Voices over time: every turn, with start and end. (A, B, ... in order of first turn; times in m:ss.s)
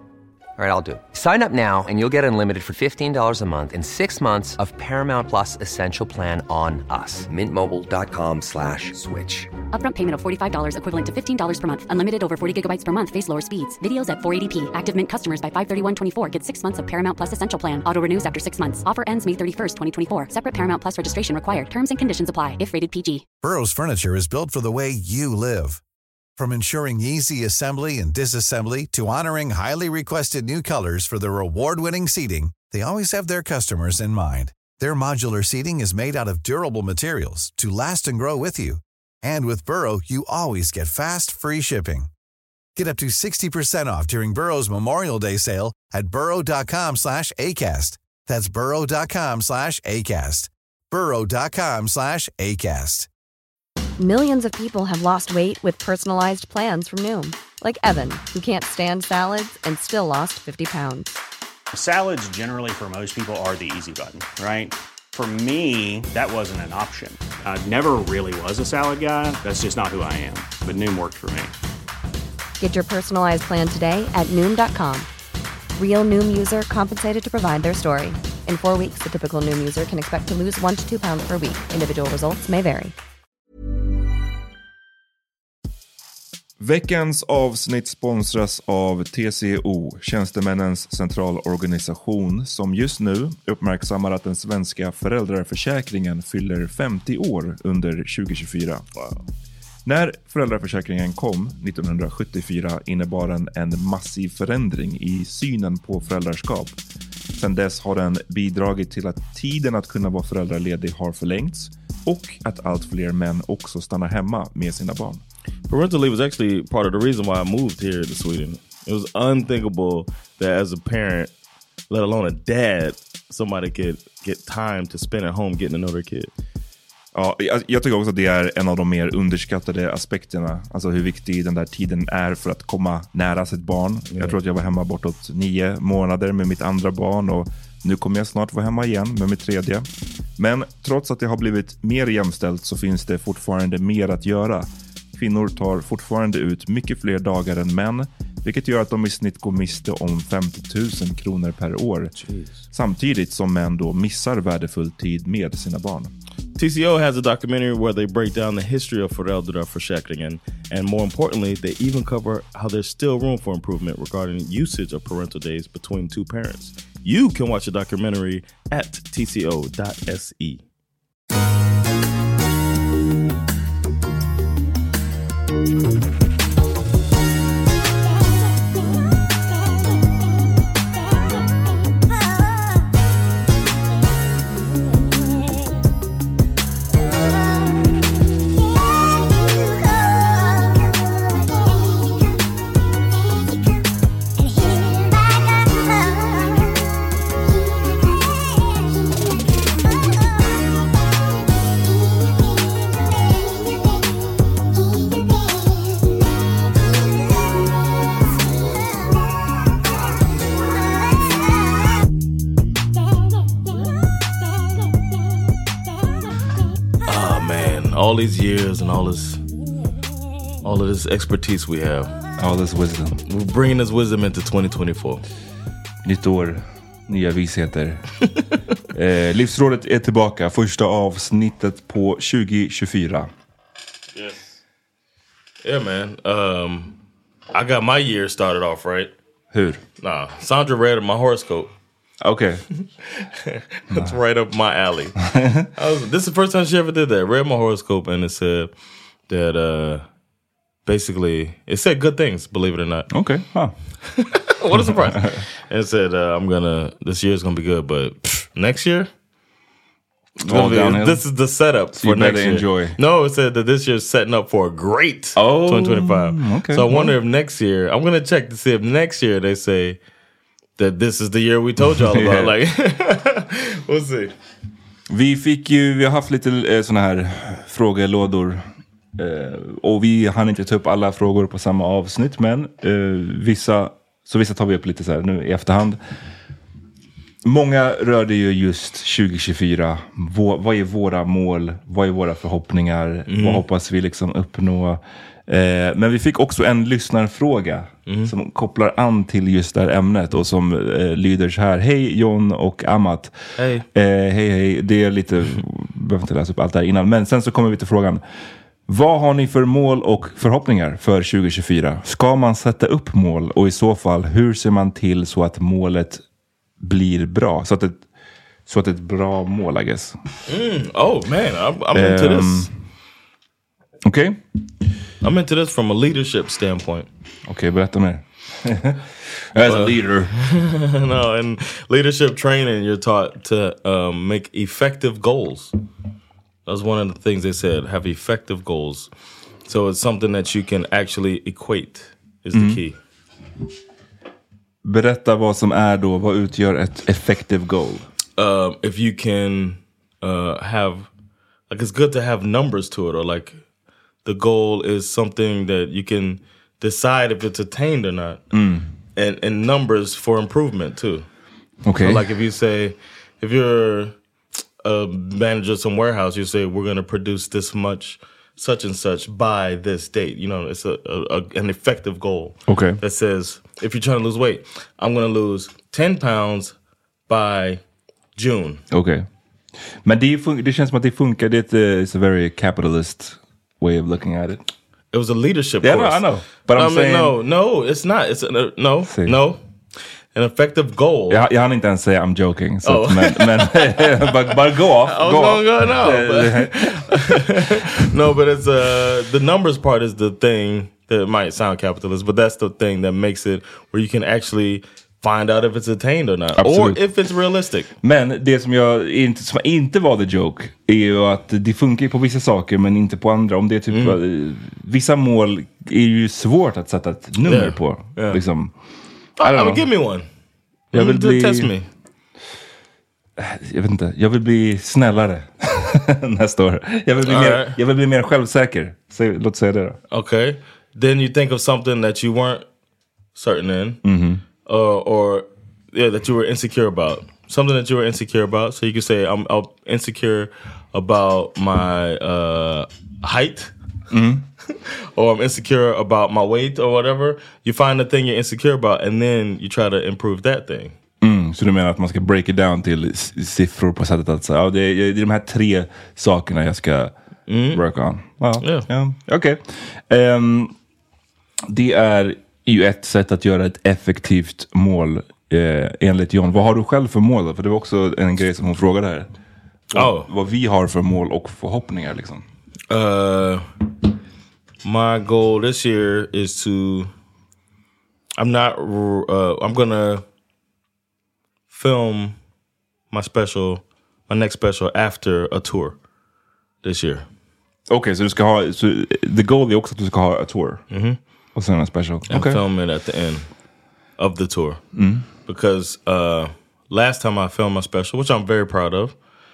0:00.6-0:09.5 A
0:09.7-0:23.2 B
0:23.4-0:25.8 C
0:26.4-0:42.1 C
0:42.8-0:53.1 C
0:54.0-1:01.2 D
1:01.7-1:11.5 E
1:12.6-1:15.1 D
1:15.8-1:22.9 D
1:26.6-1:38.8 F
1:39.0-1:39.2 G
1:39.8-1:46.8 F
1:47.4-1:55.2 F
1:55.7-2:01.3 G
2:01.9-2:06.3 G
2:07.1-2:19.9 F
2:14.1-2:14.4 G
2:20.4-2:32.1 F
2:32.7-2:36.1 F
2:36.6-2:50.6 G
3:37.0-3:39.4 G
3:40.6-3:42.1 G
3:42.4-3:43.2 F
3:43.3-3:45.2 G
3:46.0-3:48.0 F
3:48.9-3:53.3 F
3:54.1-3:54.5 G
3:55.6-3:57.0 G
3:57.5-3:59.1 G
3:59.5-3:59.8 F
4:00.0-4:01.7 G
4:02.2-4:02.6 F
4:03.2-4:08.7 G
4:05.2-4:05.7 F
4:09.3-4:10.0 G
4:10.8-4:13.2 G
4:13.1-4:13.7 F
4:14.1-4:19.1 G
4:15.2-4:15.4 F
4:20.4-4:21.2 F
4:20.4-4:30.0 G
4:22.0-4:23.0 F
4:25.4-4:27.1 F
4:30.8-4:34.3 G
4:32.0-4:32.5 F
4:35.1-4:38.6 F
4:39.2-4:46.0 F
4:47.4-5:03.4 F
4:53.3-4:53.6 G
4:58.1-4:58.3 G
5:03.6-5:03.8 G
5:03.9-5:08.2 F
5:08.9-5:16.2 F
5:16.8-5:18.0 F
5:18.7-5:20.2 F
5:20.5-5:22.7 G
5:21.9-5:22.7 F
5:24.0-5:24.4 F
5:25.2-5:27.1 G
5:27.5-5:30.4 F
5:29.6-5:35.7 G
5:36.6-5:39.1 G
5:39.6-5:43.0 G
5:42.5-5:42.8 F
5:44.8-5:48.1 F
5:48.4-5:51.1 G
5:51.7-5:53.6 G
5:54.2-5:58.4 G
5:58.5-5:58.9 F
5:59.2-6:01.2 G
6:01.8-6:02.2 F
6:02.0-6:04.2 G
6:04.8-6:16.7 G
6:12.7-6:13.0 F
6:17.3-6:17.8 G
6:18.3-6:18.8 G
6:18.9-6:19.2 F
6:20.0-6:24.6 F
6:25.1-6:29.6 G
6:25.8-6:27.3 F
6:29.1-6:29.4 F
6:30.3-6:31.4 G
6:31.3-6:38.1 F
6:32.8-6:47.9 G
6:46.6-6:47.0 F
6:48.0-6:58.7 F
6:53.9-6:54.2 G
6:57.4-6:58.4 G
6:59.4-7:00.2 G
6:59.4-6:59.9 F
7:00.9-7:01.9 G
7:00.9-7:01.7 F
7:03.4-7:10.0 F
7:07.2-7:07.8 G
7:10.1-7:12.6 G
7:13.3-7:14.0 G
7:14.0-7:14.4 F
7:14.6-7:23.7 G
7:24.1-7:24.4 F
7:24.7-7:30.9 G
7:31.2-7:37.1 F
7:37.5-7:37.8 G
7:37.7-7:40.7 F
7:38.6-7:38.9 G
7:41.7-7:49.3 F
7:49.9-7:52.4 F
7:49.9-7:50.3 G
7:52.9-7:53.7 G
7:54.8-7:57.1 G
7:58.4-8:00.2 G
8:01.7-8:02.4 G
8:03.1-8:06.0 G
8:06.8-8:07.2 G
8:07.9-8:10.8 F
8:10.9-8:11.2 G
8:11.5-8:12.6 F
8:12.3-8:13.5 G
8:14.2-8:14.8 G
8:14.9-8:15.2 F
8:15.4-8:19.1 G